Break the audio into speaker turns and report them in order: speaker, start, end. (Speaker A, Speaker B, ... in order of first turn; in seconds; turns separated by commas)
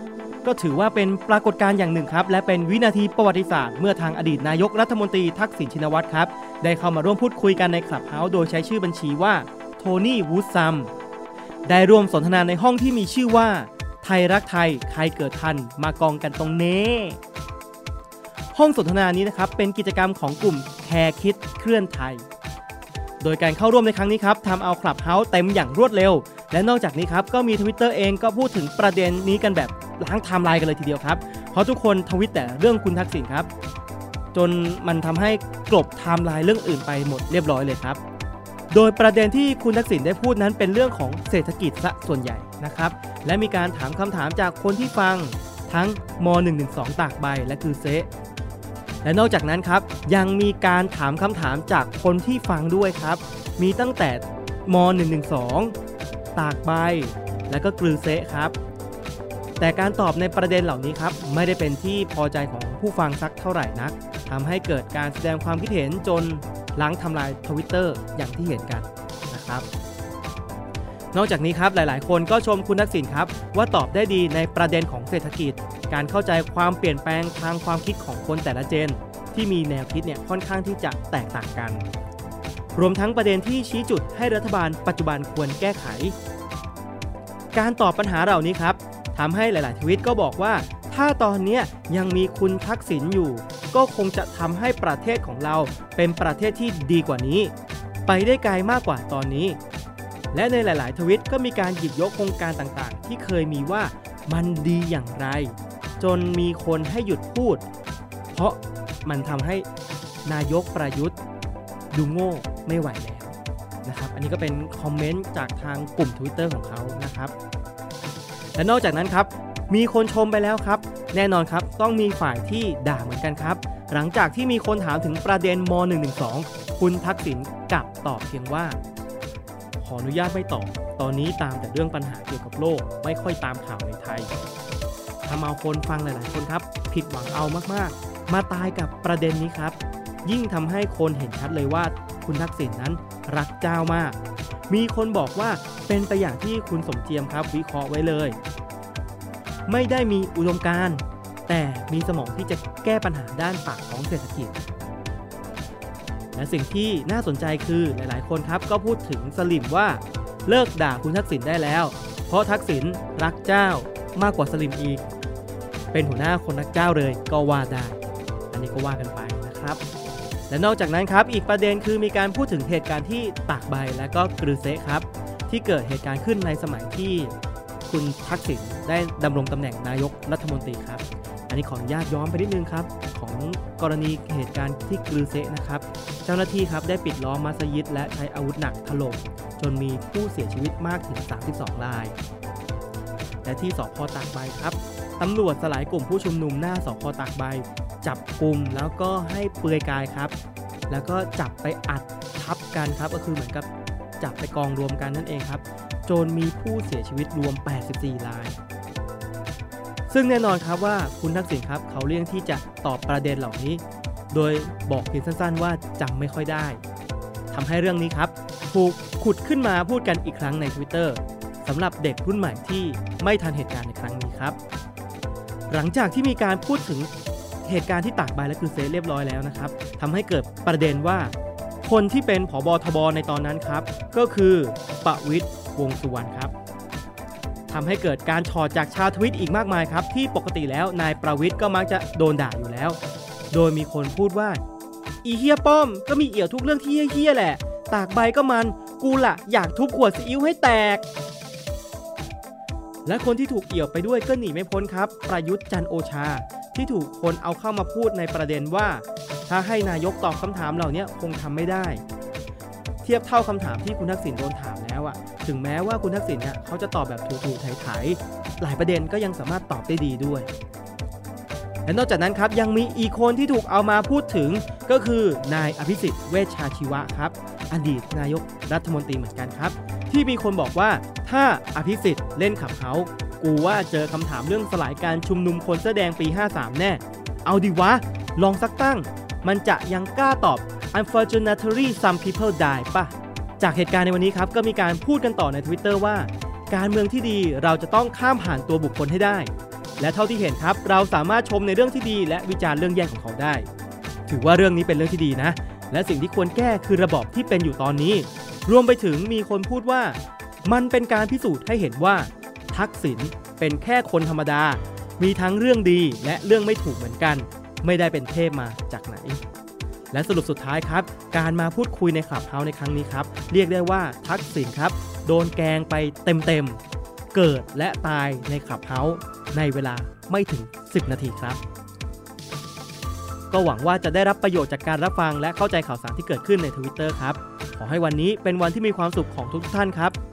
Speaker A: 0.4-10.9, Speaker A: 11.7-17.2, Speaker A: 18.5-22.3, Speaker A: 23.2-33.5, Speaker A: 34.3-38.0, Speaker A: 38.7-48.1, Speaker A: 49.0-55.8, Speaker A: 56.4-58.6, Speaker A: 59.6-69.7, Speaker A: 71.1-81.9, Speaker A: 82.8-86.2, Speaker A: 87.5-97.5, Speaker A: 98.1-99.6, Speaker A: 100.3-107.7, Speaker A: 108.3-109.7, Speaker A: 110.2-111.2, Speaker A: 111.9-117.3, Speaker A: 118.6-128.8, Speaker A: 129.8-134.3, Speaker A: 135.2-144.2, Speaker A: 144.7-148.4, Speaker A: 149.7-154.6, Speaker A: 156.3-165.1, Speaker A: 165.9-168.0, Speaker A: 168.5-169.8, Speaker A: 170.5-177.4, Speaker A: 177.9-192.2, Speaker A: 193.4-200.3, Speaker A: 200.9-203.7, Speaker A: 204.2-208.6, Speaker A: 210.1-216.8, Speaker A: 217.5-224.6, Speaker A: 225.7-227.1, Speaker A: 227.7-236.5, Speaker A: 237.7-243.0, Speaker A: 243.5-244.6, Speaker A: 245.2-251.1, Speaker A: 253.1-262.0, Speaker A: 263.0-270.5, Speaker A: 271.9-303.7, Speaker A: 304.3-319.4, Speaker A: 320.1-326.8, Speaker A: 327.3-331.6, Speaker A: 333.5-340.2